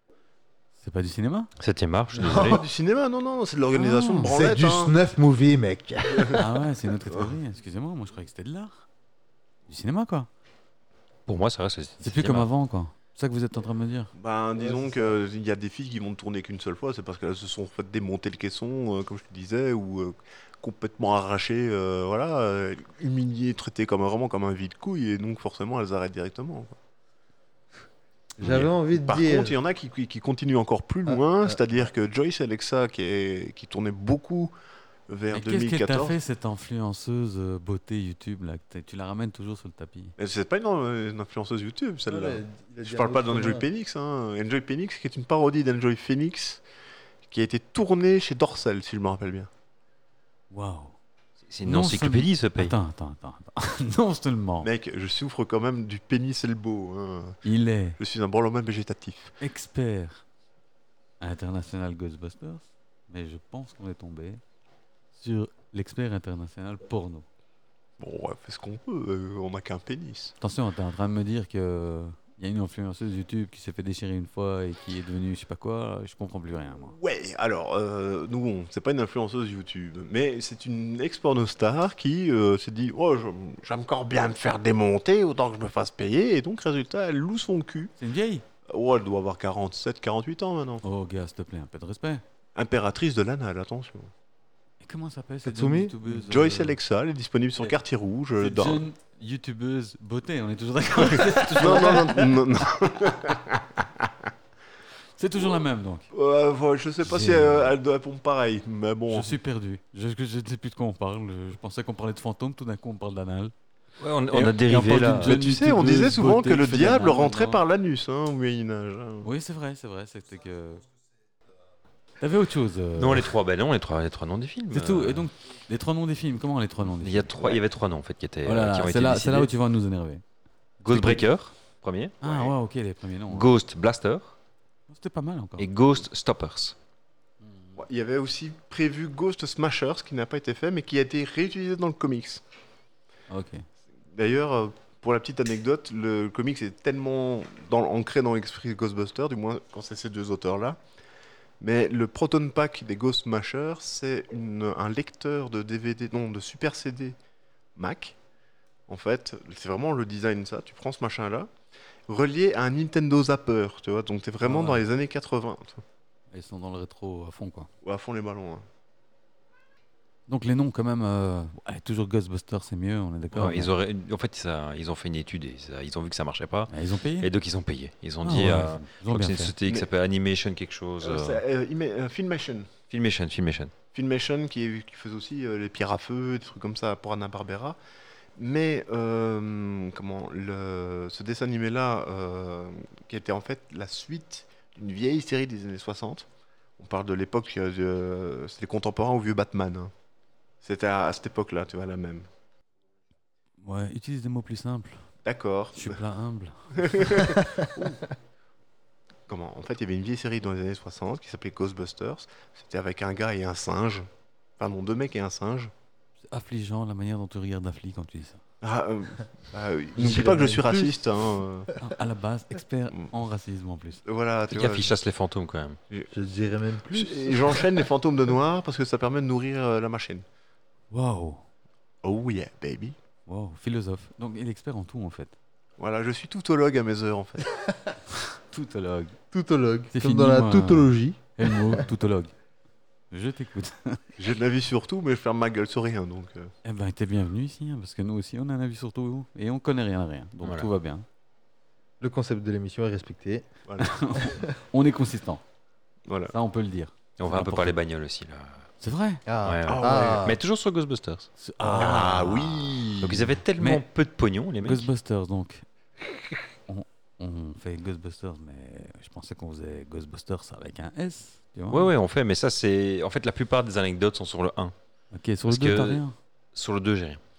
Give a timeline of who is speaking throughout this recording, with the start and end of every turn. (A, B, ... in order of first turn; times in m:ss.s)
0:00.8-0:01.5 A
0:01.6-0:02.6 B
0:02.2-0:05.0 C
0:02.2-0:02.6 D
0:03.8-0:06.4 D
0:03.9-0:04.2 A
0:06.1-0:06.5 C
0:06.4-0:08.8 A
0:09.7-0:10.3 A
0:11.3-0:12.5 B
0:12.0-0:14.1 A
0:14.2-0:26.8 C
0:14.6-0:15.1 D
0:28.4-0:29.6 D
0:28.4-0:28.7 B
0:28.9-0:34.5 C
0:31.1-0:31.8 D
0:35.1-0:36.2 C
0:35.3-0:40.2 A
0:40.2-0:46.6 C
0:42.1-0:43.7 D
0:47.3-0:49.5 C
0:50.5-0:51.0 A
0:51.5-0:52.7 B
0:51.6-0:54.7 A
0:54.6-0:57.4 C
0:57.4-0:58.0 A
0:58.0-0:59.3 C
0:59.4-1:00.2 A
1:01.2-1:04.4 A
1:05.2-1:07.3 A
1:08.0-1:10.4 C
1:10.4-1:17.0 A
1:16.9-1:27.9 C
1:28.0-1:28.4 A
1:28.7-1:30.8 C
1:30.8-1:32.2 A
1:32.6-1:34.1 C
1:34.8-1:36.8 A
1:35.4-1:36.0 D
1:36.1-1:38.8 C
1:38.4-1:42.4 A
1:41.1-1:44.3 C
1:45.2-1:46.1 A
1:46.1-1:49.4 C
1:47.0-1:47.7 A
1:49.1-1:53.5 A
1:54.0-1:55.3 B
1:54.3-1:57.6 A
1:55.3-1:59.3 C
1:59.2-2:00.8 A
2:02.2-2:03.3 A
2:03.0-2:05.3 B
2:04.7-2:07.6 A
2:07.0-2:09.5 B
2:08.4-2:10.2 A
2:10.8-2:12.2 B
2:10.8-2:11.2 A
2:12.2-2:13.5 A
2:12.2-2:12.5 C
2:13.3-2:14.4 B
2:14.9-2:15.7 A
2:15.6-2:16.8 B
2:17.4-2:17.8 A
2:17.8-2:22.4 C
2:23.3-2:23.7 A
2:24.1-2:30.8 C
2:31.6-2:37.2 C
2:37.8-2:38.2 C
2:38.9-2:41.5 C
2:42.1-2:45.8 C
2:44.4-2:44.8 A
2:46.3-2:47.7 A
2:47.8-2:48.6 C
2:50.3-2:53.7 A
2:53.3-3:01.4 B
2:56.7-2:57.3 A
2:58.2-2:59.5 A
3:01.0-3:02.7 C
3:02.9-3:03.7 B
3:03.9-3:07.8 C
3:08.4-3:16.3 C
3:16.8-3:19.9 C
3:20.6-3:22.3 C
3:23.6-3:25.1 A
3:25.2-3:26.0 C
3:25.8-3:27.3 A
3:26.8-3:28.0 C
3:29.3-3:35.7 C
3:36.3-3:38.4 A
3:38.6-3:41.7 C
3:40.0-3:41.0 D
3:41.8-3:44.0 A
3:44.0-3:44.9 C
3:44.5-3:45.8 B
3:46.1-3:47.8 D
3:46.9-3:50.2 C
3:50.9-3:51.4 A
3:52.0-3:53.0 C
3:53.3-3:55.4 A
3:55.8-3:57.6 C
3:58.1-3:59.2 A
3:59.3-4:01.9 D
3:59.9-4:02.3 A
4:03.1-4:04.1 A
4:04.2-4:06.5 C
4:06.6-4:11.0 A
4:10.4-4:10.7 B
4:12.0-4:13.5 D
4:13.7-4:14.0 C
4:13.8-4:15.4 A
4:14.2-4:14.6 D
4:16.1-4:16.3 C
4:16.3-4:17.8 A
4:17.2-4:18.6 B
4:18.8-4:19.2 A
4:19.3-4:20.4 D
4:19.4-4:24.9 B
4:19.7-4:20.3 C
4:21.4-4:22.5 A
4:21.7-4:22.0 D
4:21.8-4:23.2 C
4:23.6-4:23.8 A
4:24.6-4:25.7 A
4:26.7-4:31.9 A
4:31.7-4:34.7 B
4:35.1-4:36.1 A
4:35.5-4:36.0 B
4:36.5-4:37.2 B